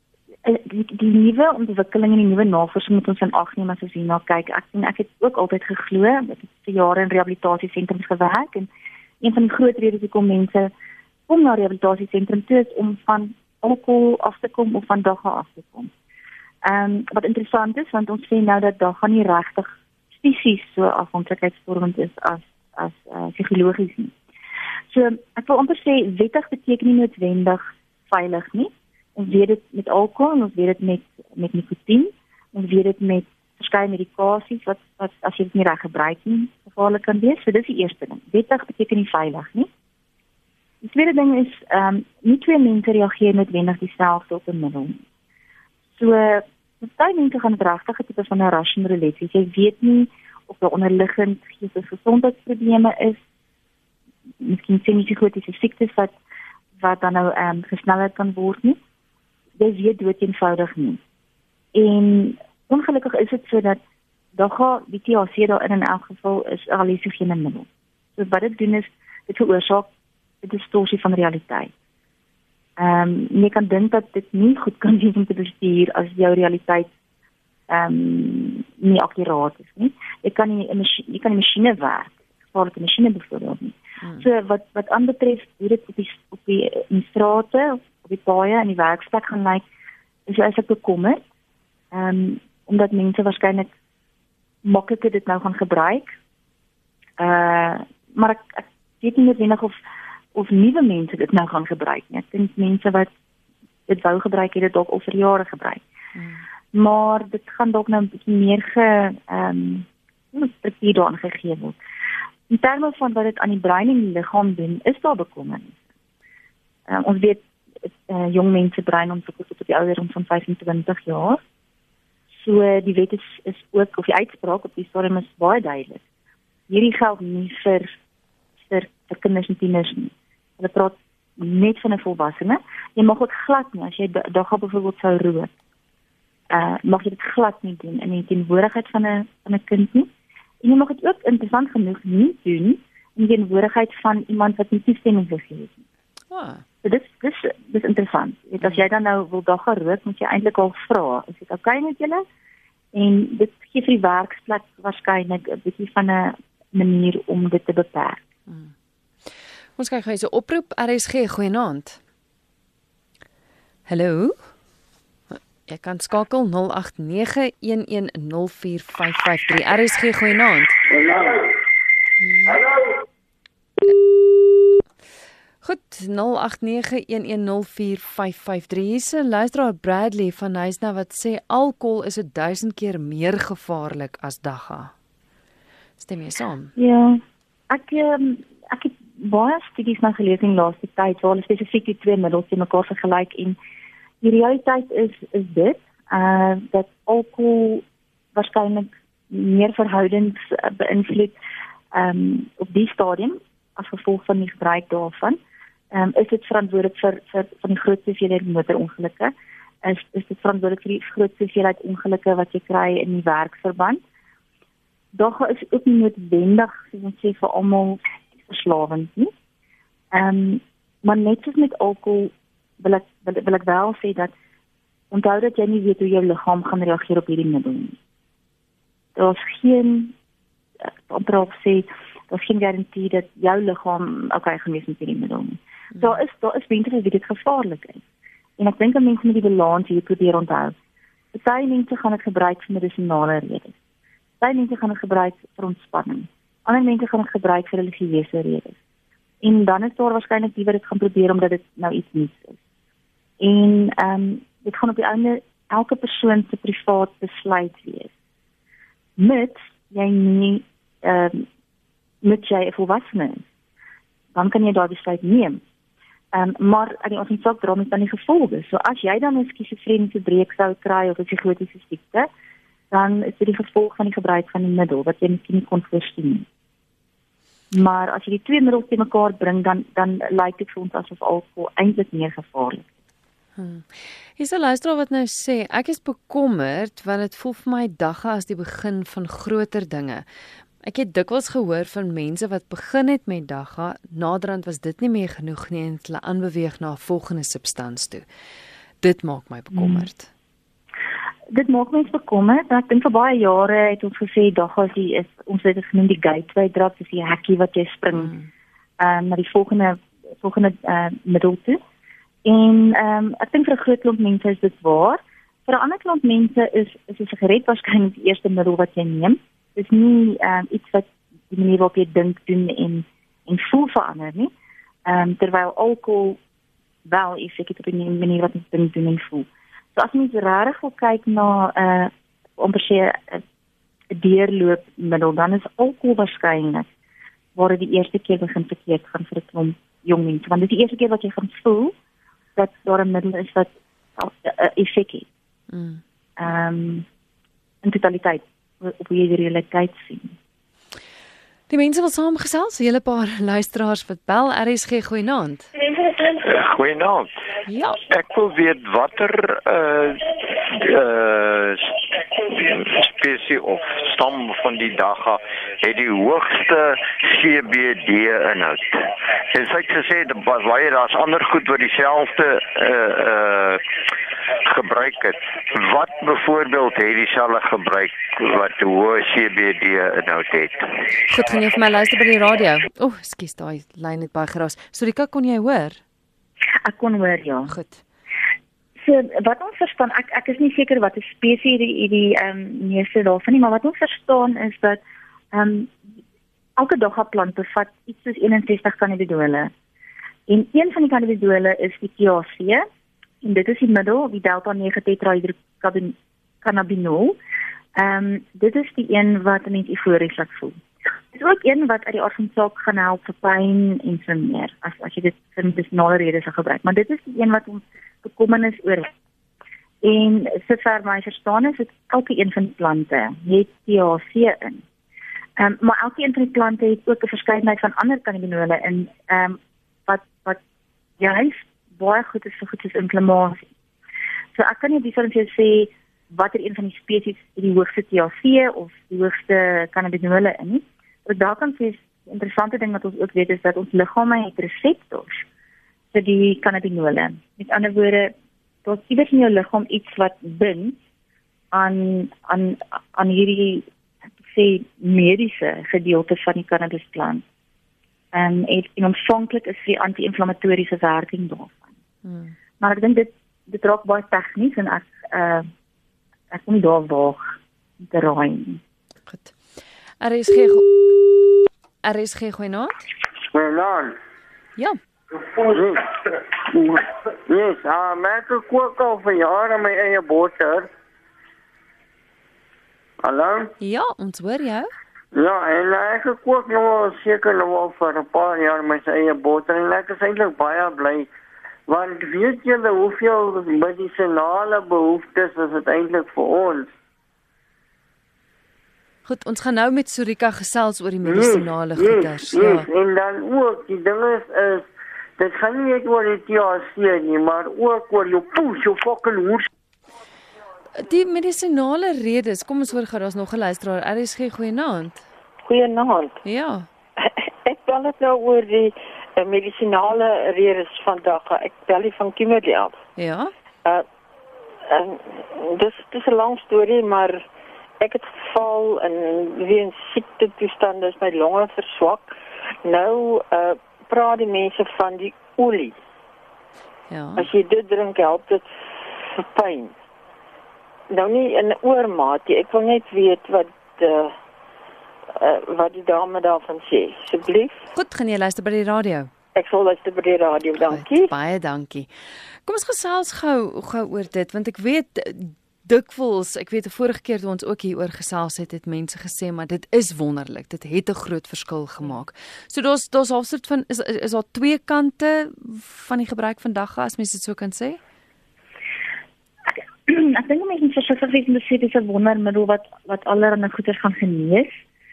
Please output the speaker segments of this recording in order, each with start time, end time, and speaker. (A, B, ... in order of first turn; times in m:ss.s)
0:00.4-0:08.7 A
0:09.2-0:10.7 A
0:11.3-0:15.9 A
0:16.6-0:24.1 A
0:24.9-0:39.7 A
0:40.8-0:45.0 A
0:45.9-0:53.2 A
0:54.4-0:56.2 A
0:56.8-0:58.8 A
0:59.6-1:01.0 A
1:01.7-1:03.8 A
1:04.3-1:09.9 A
1:10.4-1:11.7 A
1:12.8-1:16.9 A
1:17.7-1:29.6 A
1:30.3-1:31.2 A
1:31.9-1:33.7 A
1:34.6-1:36.1 A
1:37.2-1:39.8 A
1:40.3-1:43.1 A
1:43.9-1:45.8 A
1:46.2-1:46.4 B
1:46.7-1:51.8 A
1:52.5-1:55.8 A
1:56.9-2:01.4 A
2:02.3-2:06.0 A
2:06.7-2:08.0 A
2:08.6-2:15.5 A
2:16.5-2:20.1 A
2:20.6-2:25.8 A
2:26.3-2:26.6 B
2:26.8-2:32.2 A
2:32.9-2:38.2 A
2:38.5-2:38.7 B
2:39.3-2:42.0 B
2:43.9-2:44.5 B
2:45.3-2:50.8 B
2:50.9-2:51.5 C
2:52.2-2:52.6 B
2:53.9-2:54.8 B
2:55.6-3:04.9 B
3:06.0-3:06.7 B
3:06.8-3:13.6 A
3:14.2-3:21.3 A
3:21.9-3:25.4 A
3:25.9-3:34.0 A
3:35.1-3:39.3 A
3:40.1-3:44.3 A
3:45.1-3:48.0 A
3:49.1-3:50.1 A
3:50.8-3:58.0 A
3:58.6-4:00.8 A
4:01.3-4:03.8 A
4:04.4-4:08.8 A
4:09.4-4:12.6 A
4:13.4-4:18.1 A
4:19.2-4:21.5 A
4:22.2-4:23.4 A
4:24.3-4:25.6 A
4:26.3-4:32.3 A
4:32.9-4:36.4 A
4:37.7-4:42.9 A
4:43.6-4:50.2 B
4:50.8-4:58.2 B
4:59.0-5:00.3 B
4:59.7-5:00.1 A
5:01.5-5:08.3 A
5:08.2-5:08.5 B
5:09.0-5:11.8 A
5:12.4-5:24.5 A
5:25.0-5:26.4 A
5:27.0-5:33.4 A
5:34.1-5:36.9 A
5:37.5-5:41.9 A
5:42.6-5:45.3 A
5:45.7-5:46.0 B
5:46.4-5:47.1 A
5:47.8-5:50.3 A
5:51.7-5:55.7 B
5:56.1-5:57.3 D
5:57.7-5:58.0 B
5:58.0-6:13.8 D
6:14.6-6:20.9 D
6:21.3-6:26.0 B
6:26.8-6:27.7 A
6:27.7-6:28.0 B
6:29.0-6:35.0 A
6:35.5-6:36.0 A
6:36.8-6:39.7 A
6:40.5-6:42.8 A
6:43.4-6:47.4 A
6:48.0-6:50.8 A
6:51.3-6:59.1 A
7:00.0-7:04.8 A
7:05.6-7:10.6 A
7:11.2-7:13.7 A
7:14.5-7:25.4 A
7:26.1-7:28.3 A
7:28.8-7:31.0 A
7:31.7-7:33.9 A
7:34.4-7:37.4 A
7:38.3-7:41.9 A
7:42.2-7:42.5 B
7:42.8-7:45.7 A
7:46.5-7:48.8 A
7:49.3-7:49.6 B
7:50.2-7:53.0 B
7:53.5-7:54.2 C
7:55.4-8:00.9 C
8:03.2-8:03.7 C
8:03.8-8:04.9 B
8:05.3-8:11.3 C
8:11.9-8:16.9 C
8:19.2-8:22.9 B
8:21.2-8:29.7 C
8:30.9-8:35.3 B
8:35.6-8:36.4 E
8:36.4-8:36.9 B
8:37.2-8:43.0 E
8:43.2-8:43.5 B
8:44.9-8:47.4 E
8:48.0-8:52.3 E
8:52.8-8:56.0 E
8:57.1-8:57.5 B
8:57.4-8:58.6 E
8:59.4-8:59.9 E
9:01.1-9:04.3 E
9:05.3-9:07.8 E
9:07.9-9:09.3 B
9:09.5-9:11.3 E
9:10.8-9:12.1 B
9:12.6-9:28.0 B
9:29.7-9:34.8 A